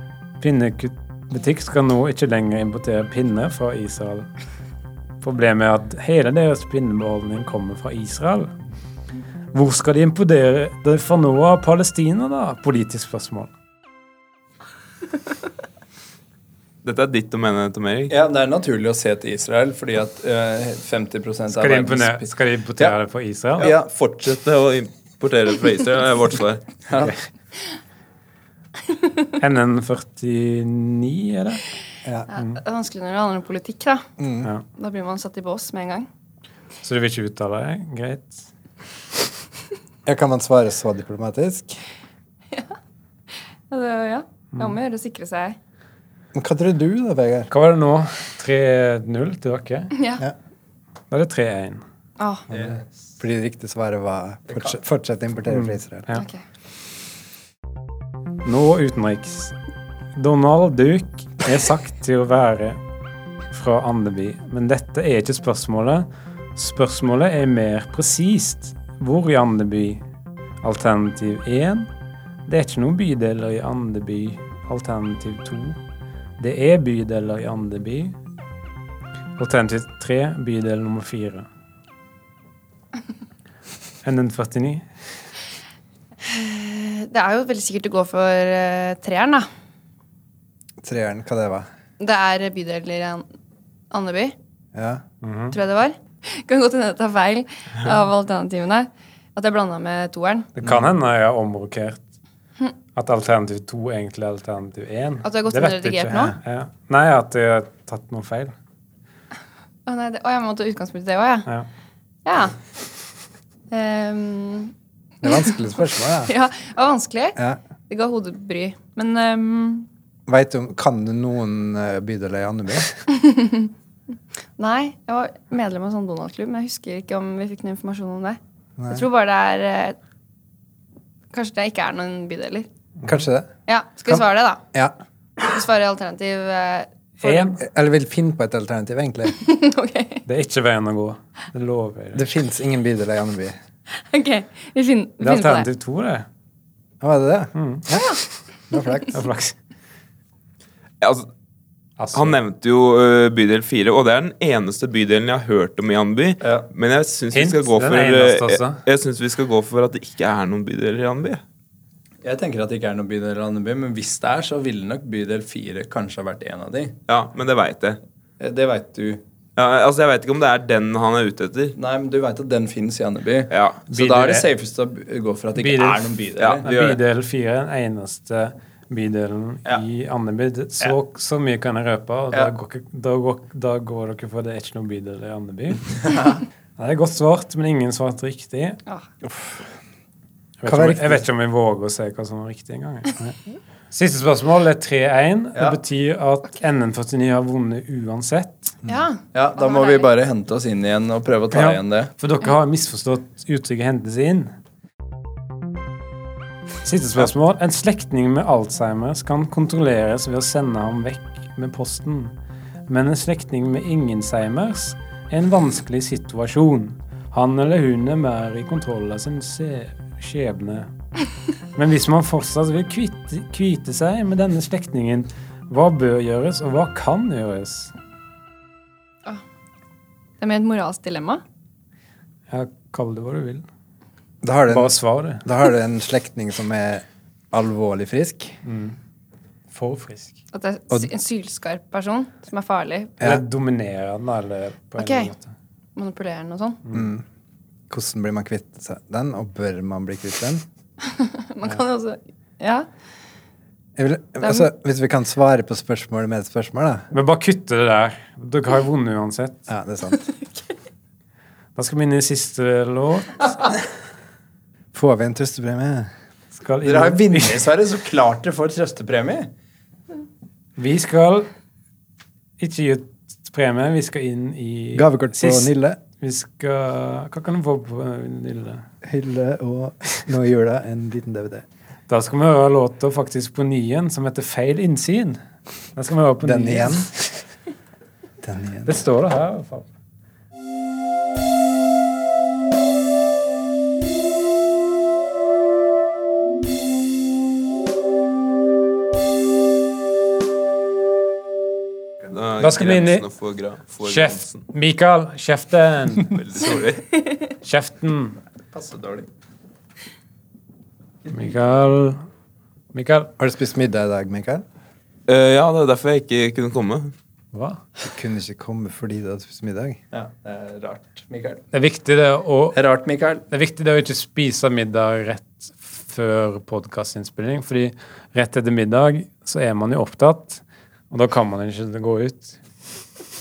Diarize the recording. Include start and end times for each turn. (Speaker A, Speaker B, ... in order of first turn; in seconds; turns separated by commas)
Speaker A: 0.4-4.3, Speaker A: 5.2-8.5, Speaker A: 9.5-13.5, Speaker B: 16.8-18.1, Speaker C: 18.1-22.9, Speaker A: 21.5-23.7, Speaker C: 23.6-23.9, Speaker B: 23.6-26.8, Speaker C: 26.9-27.1, Speaker A: 29.4-31.6, Speaker D: 32.3-34.0, Speaker A: 32.3-32.6, Speaker E: 34.2-34.5, Speaker D: 34.7-36.1, Speaker A: 36.8-38.5, Speaker E: 40.0-41.8, Speaker D: 42.5-42.8, Speaker D: 43.7-45.6, Speaker E: 46.3-47.5, Speaker A: 47.5-50.0, Speaker D: 49.9-50.2, Speaker A: 51.1-51.8, Speaker D: 52.2-52.5, Speaker C: 52.5-52.9, Speaker E: 52.5-56.1, Speaker A: 55.5-56.2, Speaker D: 56.1-56.4, Speaker A: 58.4-59.5, Speaker A: 60.1-62.8, Speaker A: 63.5-70.0, Speaker A: 70.6-71.9, Speaker A: 72.5-75.8, Speaker A: 76.4-78.1, Speaker A: 79.4-81.5, Speaker A: 84.0-84.8, Speaker D: 86.2-89.5, Speaker E: 90.8-91.7, Speaker D: 92.0-93.2, Speaker D: 93.9-94.3, Speaker E: 94.7-95.0, Speaker A: 95.2-95.6, Speaker D: 95.5-100.5, Speaker A: 100.6-102.0, Speaker E: 100.6-100.9, Speaker A: 103.0-108.5, Speaker D: 105.2-106.3, Speaker D: 109.8-111.5, Speaker D: 112.2-112.6, Speaker D: 113.7-114.7, Speaker E: 115.2-116.3, Speaker D: 116.2-117.4, Speaker D: 117.9-119.9, Speaker E: 120.3-123.0, Speaker D: 123.1-123.7, Speaker D: 124.6-130.0, Speaker E: 128.8-129.1, Speaker D: 131.3-132.7, Speaker E: 133.0-133.5, Speaker D: 133.7-134.6, Speaker D: 135.4-137.5, Speaker A: 137.2-137.6, Speaker E: 137.6-139.4, Speaker D: 139.3-140.2, Speaker A: 140.2-142.2, Speaker E: 142.1-143.6, Speaker D: 143.9-145.7, Speaker A: 145.2-146.3, Speaker E: 147.0-148.2, Speaker A: 147.5-147.9, Speaker D: 147.9-148.2, Speaker E: 148.7-149.1, Speaker D: 148.7-149.1, Speaker A: 149.1-149.6, Speaker B: 151.0-151.3, Speaker A: 152.0-152.4, Speaker B: 152.1-161.4, Speaker C: 156.4-156.7, Speaker A: 157.3-158.8, Speaker C: 162.2-166.9, Speaker B: 167.1-168.0, Speaker C: 168.4-169.2, Speaker B: 169.6-171.8, Speaker C: 171.8-176.6, Speaker B: 173.5-173.8, Speaker A: 173.9-174.5, Speaker A: 175.5-186.0, Speaker B: 176.4-177.0, Speaker C: 186.0-186.4, Speaker A: 186.8-188.8, Speaker E: 189.2-189.7, Speaker A: 190.6-193.2, Speaker E: 190.7-191.3, Speaker A: 193.9-198.7, Speaker D: 198.8-200.1, Speaker C: 199.3-202.1, Speaker A: 201.5-204.5, Speaker A: 206.8-212.3, Speaker A: 212.9-220.9, Speaker A: 221.7-227.9, Speaker D: 230.4-231.4, Speaker A: 232.5-233.6, Speaker E: 234.4-238.6, Speaker A: 234.7-235.4, Speaker A: 238.6-238.9, Speaker A: 239.7-240.3, Speaker D: 240.5-243.2, Speaker A: 243.2-245.5, Speaker D: 245.0-245.3, Speaker D: 245.9-246.8, Speaker A: 246.9-247.1, Speaker E: 246.9-247.2, Speaker E: 247.9-250.6, Speaker D: 251.0-252.9, Speaker E: 253.9-257.1, Speaker A: 257.1-259.7, Speaker E: 259.7-260.3, Speaker A: 261.8-263.6, Speaker E: 264.9-266.1, Speaker A: 266.5-267.7, Speaker C: 266.8-269.5, Speaker A: 270.8-271.5, Speaker A: 272.6-278.8, Speaker E: 274.9-276.0, Speaker E: 279.0-281.6, Speaker A: 282.1-285.4, Speaker A: 285.9-287.4, Speaker E: 286.4-287.1, Speaker E: 288.4-289.1, Speaker A: 288.9-289.9, Speaker B: 302.3-304.6, Speaker A: 302.6-303.3, Speaker A: 304.0-306.3, Speaker B: 306.2-307.1, Speaker A: 307.6-308.4, Speaker C: 308.7-309.3, Speaker A: 311.3-312.2, Speaker A: 312.9-313.3, Speaker E: 313.4-314.6, Speaker B: 315.3-317.1, Speaker A: 317.5-317.8, Speaker E: 318.0-320.0, Speaker C: 320.1-321.6, Speaker A: 321.7-322.8, Speaker C: 322.7-323.4, Speaker A: 323.5-332.6